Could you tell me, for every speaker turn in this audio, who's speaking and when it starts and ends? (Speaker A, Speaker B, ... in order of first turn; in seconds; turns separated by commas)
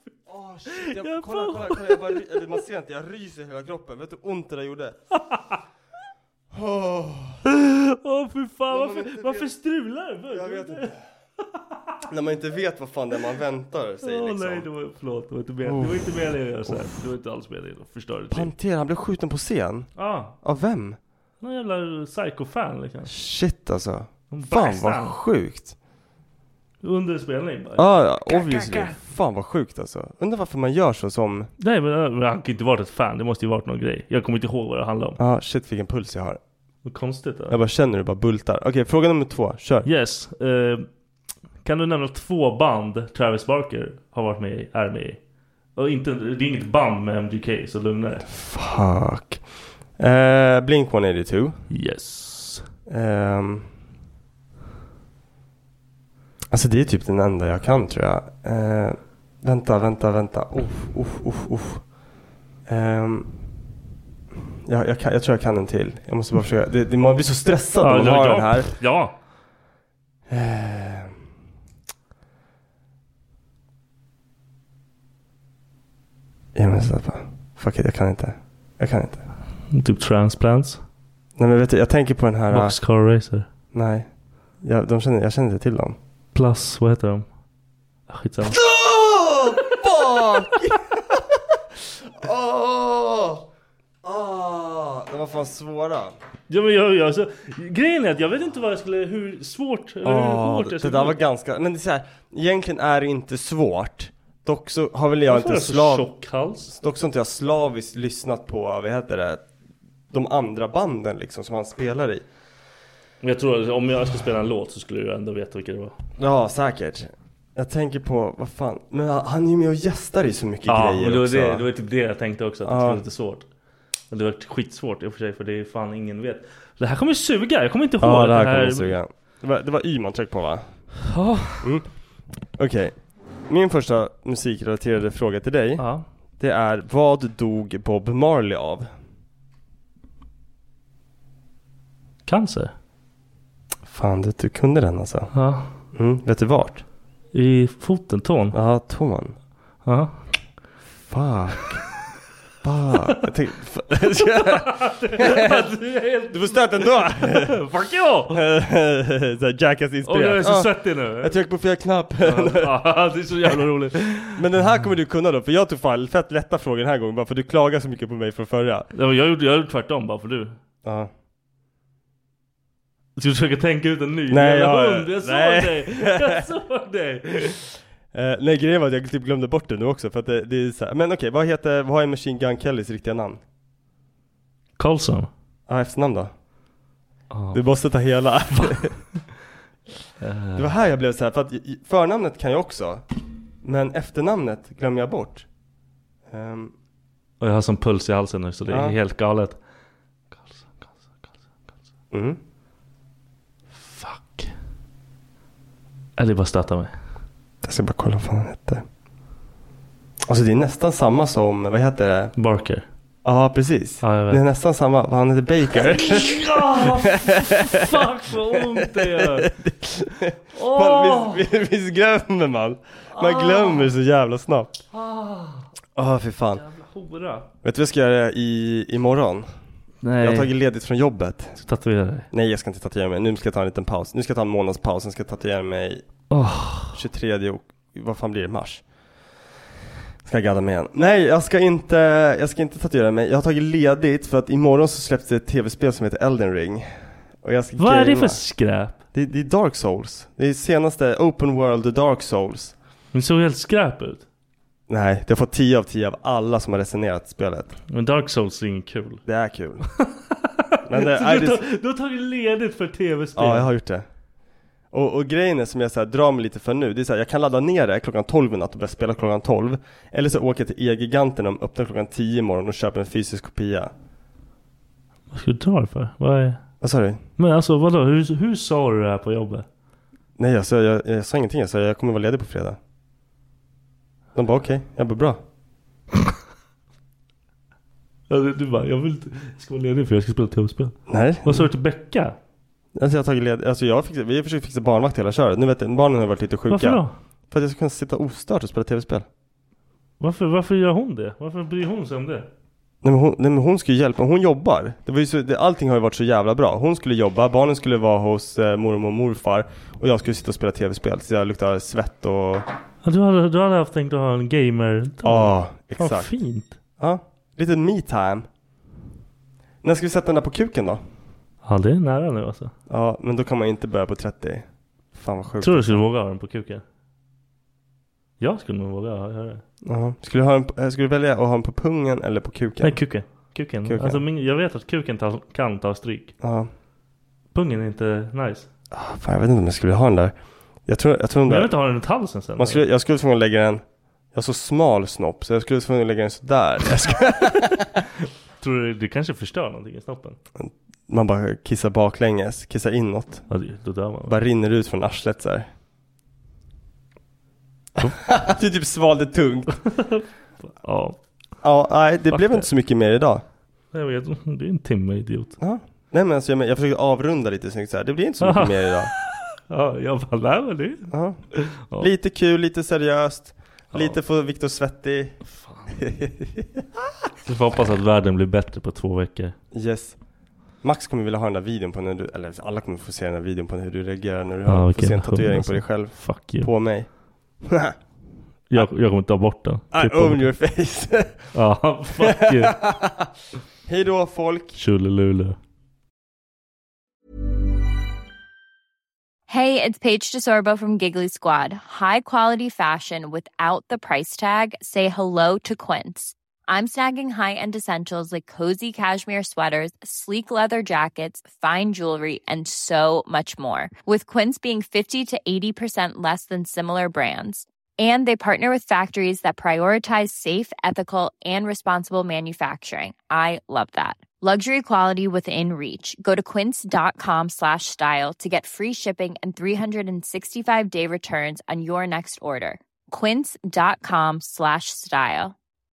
Speaker A: 0.3-5.0, Speaker B: 0.9-2.3, Speaker B: 5.1-5.4, Speaker A: 6.5-7.4, Speaker B: 7.5-10.9, Speaker A: 8.7-9.5, Speaker A: 10.3-11.0, Speaker A: 12.1-14.7, Speaker B: 14.0-18.5, Speaker A: 15.6-17.0, Speaker A: 18.3-21.0, Speaker B: 20.0-20.4, Speaker B: 21.4-23.1, Speaker A: 23.1-25.7, Speaker B: 24.3-25.2, Speaker B: 26.8-28.9, Speaker A: 27.8-31.5, Speaker B: 31.6-35.2, Speaker A: 35.2-36.4, Speaker B: 36.8-37.5, Speaker A: 37.5-39.9, Speaker B: 39.8-40.9, Speaker B: 41.6-45.2, Speaker B: 45.8-48.2, Speaker A: 48.2-49.4, Speaker A: 50.0-51.6, Speaker B: 51.7-52.6, Speaker A: 52.9-53.7, Speaker A: 56.5-61.8, Speaker A: 62.7-63.3, Speaker A: 64.7-68.7, Speaker B: 67.8-69.1, Speaker A: 70.3-71.1, Speaker A: 76.5-79.2, Speaker B: 79.7-80.8, Speaker A: 81.4-82.7, Speaker B: 82.5-83.5, Speaker A: 83.7-84.1, Speaker A: 84.6-86.0, Speaker B: 86.3-87.2, Speaker B: 88.1-88.6, Speaker A: 88.4-91.2, Speaker A: 92.1-93.4, Speaker A: 94.0-96.1, Speaker B: 96.5-101.2, Speaker A: 100.0-106.1, Speaker B: 105.3-106.7, Speaker A: 106.7-109.4, Speaker A: 110.1-112.2, Speaker B: 113.2-115.9, Speaker A: 116.2-121.6, Speaker B: 120.7-123.5, Speaker A: 122.6-123.0, Speaker B: 124.1-129.0, Speaker A: 128.0-130.6, Speaker B: 131.1-131.6, Speaker A: 131.6-131.9, Speaker A: 132.6-133.0, Speaker A: 133.5-135.8, Speaker B: 135.8-136.1, Speaker A: 136.4-138.9, Speaker B: 142.2-142.7, Speaker A: 143.9-145.3, Speaker B: 145.3-145.7, Speaker A: 145.9-146.8, Speaker B: 147.3-148.6, Speaker A: 148.5-149.4, Speaker B: 149.8-150.2, Speaker A: 151.0-151.8, Speaker A: 152.6-154.7, Speaker B: 154.0-158.4, Speaker A: 155.2-155.5, Speaker A: 156.3-157.6, Speaker A: 158.3-160.7, Speaker B: 160.1-161.4, Speaker A: 161.2-162.7, Speaker B: 162.2-164.4, Speaker A: 164.3-168.9, Speaker B: 168.9-170.6, Speaker A: 170.8-171.1, Speaker B: 173.2-177.6, Speaker A: 174.3-176.4, Speaker A: 178.1-183.4, Speaker B: 184.8-185.3, Speaker A: 185.7-186.3, Speaker B: 187.3-187.6, Speaker A: 187.5-188.9, Speaker B: 190.2-190.7, Speaker A: 190.6-193.0, Speaker A: 193.6-195.4, Speaker A: 196.3-196.7, Speaker B: 197.4-199.6, Speaker A: 198.7-198.9, Speaker B: 200.3-201.3, Speaker A: 202.1-202.4, Speaker B: 203.8-204.5, Speaker B: 206.2-206.9, Speaker A: 207.6-208.8, Speaker A: 210.3-212.3, Speaker B: 212.4-212.9, Speaker A: 213.2-217.9, Speaker B: 214.0-214.4, Speaker B: 215.7-219.5, Speaker A: 218.5-224.8, Speaker B: 220.5-221.4, Speaker B: 223.1-223.9, Speaker B: 224.9-225.7, Speaker A: 225.9-226.6, Speaker B: 226.6-227.5, Speaker A: 227.6-229.5, Speaker B: 230.0-230.5, Speaker A: 230.2-231.6, Speaker B: 231.6-232.3, Speaker A: 232.3-236.0, Speaker B: 236.3-237.0, Speaker A: 236.9-238.8, Speaker A: 240.2-246.9, Speaker A: 247.4-248.4, Speaker B: 247.8-249.0, Speaker A: 249.1-252.7, Speaker B: 253.1-254.2, Speaker A: 254.9-257.7, Speaker B: 257.9-259.2, Speaker A: 259.3-259.9, Speaker B: 259.9-260.4, Speaker A: 260.9-261.6, Speaker B: 260.9-263.7, Speaker A: 263.4-264.1, Speaker A: 264.9-273.9, Speaker B: 275.3-276.6, Speaker A: 276.8-277.2, Speaker B: 277.4-279.6, Speaker A: 280.4-282.8, Speaker A: 284.3-285.4, Speaker B: 288.3-292.4, Speaker A: 291.1-291.7, Speaker A: 292.9-297.0, Speaker B: 296.7-297.1, Speaker A: 297.5-299.2, Speaker B: 300.2-302.5, Speaker A: 303.0-312.6, Speaker B: 313.0-316.8, Speaker A: 315.2-316.3, Speaker A: 317.0-318.5, Speaker A: 319.8-321.0, Speaker B: 321.6-322.7, Speaker A: 322.9-326.0, Speaker B: 325.6-326.8, Speaker B: 328.4-329.6, Speaker A: 329.8-333.0, Speaker B: 332.8-336.3, Speaker A: 333.9-334.2, Speaker A: 336.4-336.7, Speaker B: 337.5-338.7, Speaker A: 338.9-340.3, Speaker A: 340.9-341.7, Speaker B: 341.5-342.8, Speaker A: 342.6-343.8, Speaker A: 344.3-347.8, Speaker B: 348.6-350.4, Speaker A: 350.6-353.4, Speaker B: 353.5-354.3, Speaker A: 354.3-355.7, Speaker A: 358.1-359.7, Speaker B: 359.9-361.2, Speaker A: 361.6-363.4, Speaker B: 362.3-362.7, Speaker B: 363.9-365.6, Speaker A: 365.6-369.1, Speaker B: 368.4-372.1, Speaker A: 371.1-371.4, Speaker A: 372.0-375.4, Speaker B: 375.6-375.9, Speaker A: 375.9-376.8, Speaker B: 377.4-379.6, Speaker A: 379.7-380.2, Speaker A: 380.8-387.1, Speaker B: 384.7-386.7, Speaker A: 387.6-387.9, Speaker B: 388.7-390.5, Speaker A: 389.9-391.5, Speaker B: 391.5-392.8, Speaker A: 392.2-393.2, Speaker A: 393.9-394.8, Speaker B: 394.8-395.6, Speaker C: 399.5-435.6